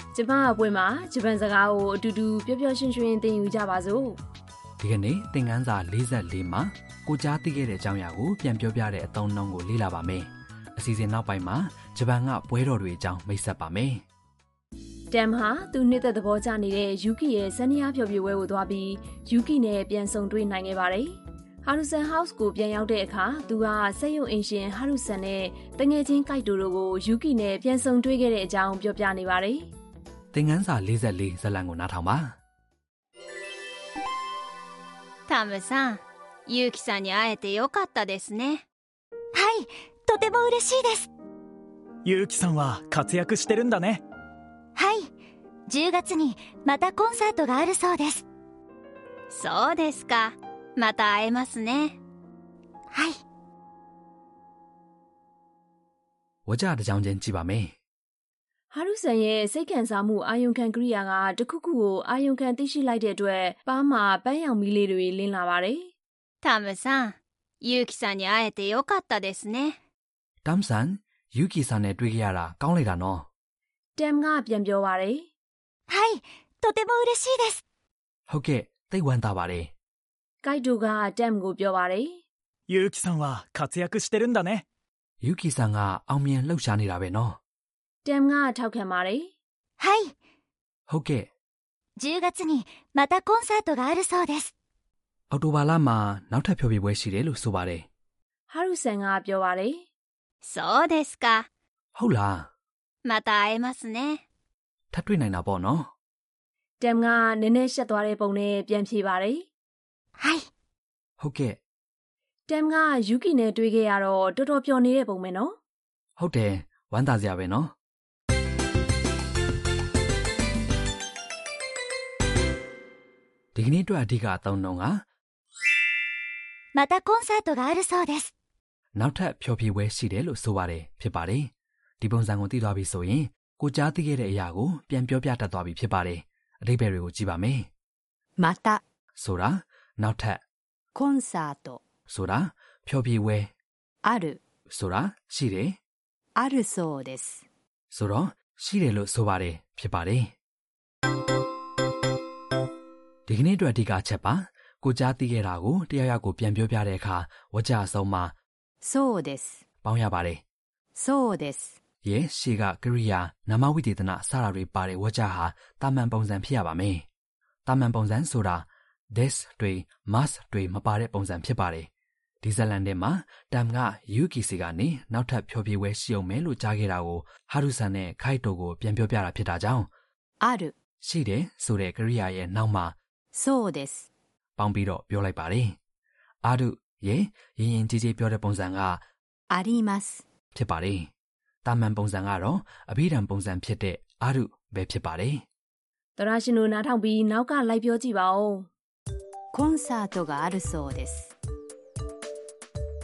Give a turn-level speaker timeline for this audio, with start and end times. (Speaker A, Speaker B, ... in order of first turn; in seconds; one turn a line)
Speaker A: 0.1-4.2
Speaker B: 4.8-14.0
Speaker A: 15.1-29.7
Speaker B: 30.3-32.4
Speaker C: 35.3-38.6
Speaker D: 39.3-41.1
Speaker E: 42.0-44.0
Speaker D: 44.8-45.1
Speaker D: 45.7-48.2
Speaker C: 49.3-52.0
Speaker D: 52.9-53.2
Speaker B: 56.5-57.8
Speaker A: 58.7-65.9
Speaker C: 66.4-69.8
Speaker B: 70.5-73.3
Speaker A: 74.0-75.3
Speaker D: 75.9-77.6
Speaker B: 78.3-79.7
Speaker A: 80.4-82.2
Speaker E: 82.7-84.7
Speaker B: 85.2-87.4
Speaker A: 88.0-89.3
Speaker D: 89.8-90.1
Speaker B: 90.9-91.3
Speaker D: 92.0-94.5
Speaker B: 95.3-97.9
Speaker A: 98.5-99.8
Speaker C: 100.4-101.5
Speaker B: 102.0-102.5
Speaker C: 103.0-104.2
Speaker B: 104.9-105.9
Speaker A: 106.8-109.5
Speaker D: 110.2-110.5
Speaker B: 111.2-111.6
Speaker A: 112.5-115.5
Speaker B: 116.2-117.7
Speaker B: 123.5-125.0
Speaker D: 126.7-128.3
Speaker B: 128.9-137.7
Speaker F: 138.4-138.8
Speaker B: 139.2-140.4
Speaker F: 140.9-141.8
Speaker B: 142.1-143.5
Speaker F: 144.1-144.4
Speaker B: 144.7-145.8
Speaker F: 146.4-147.4
Speaker B: 147.9-150.3
Speaker B: 153.3-158.3
Speaker F: 158.8-159.6
Speaker B: 159.8-160.4
Speaker F: 160.9-161.8
Speaker B: 162.0-167.1
Speaker B: 167.7-171.9
Speaker B: 172.4-179.9
Speaker F: 180.4-180.7
Speaker B: 181.0-182.9
Speaker F: 183.3-184.1
Speaker B: 184.6-185.8
Speaker B: 186.4-189.0
Speaker F: 189.5-190.2
Speaker B: 190.5-191.1
Speaker B: 191.7-195.4
Speaker A: 196.2-198.7
Speaker F: 199.5-201.3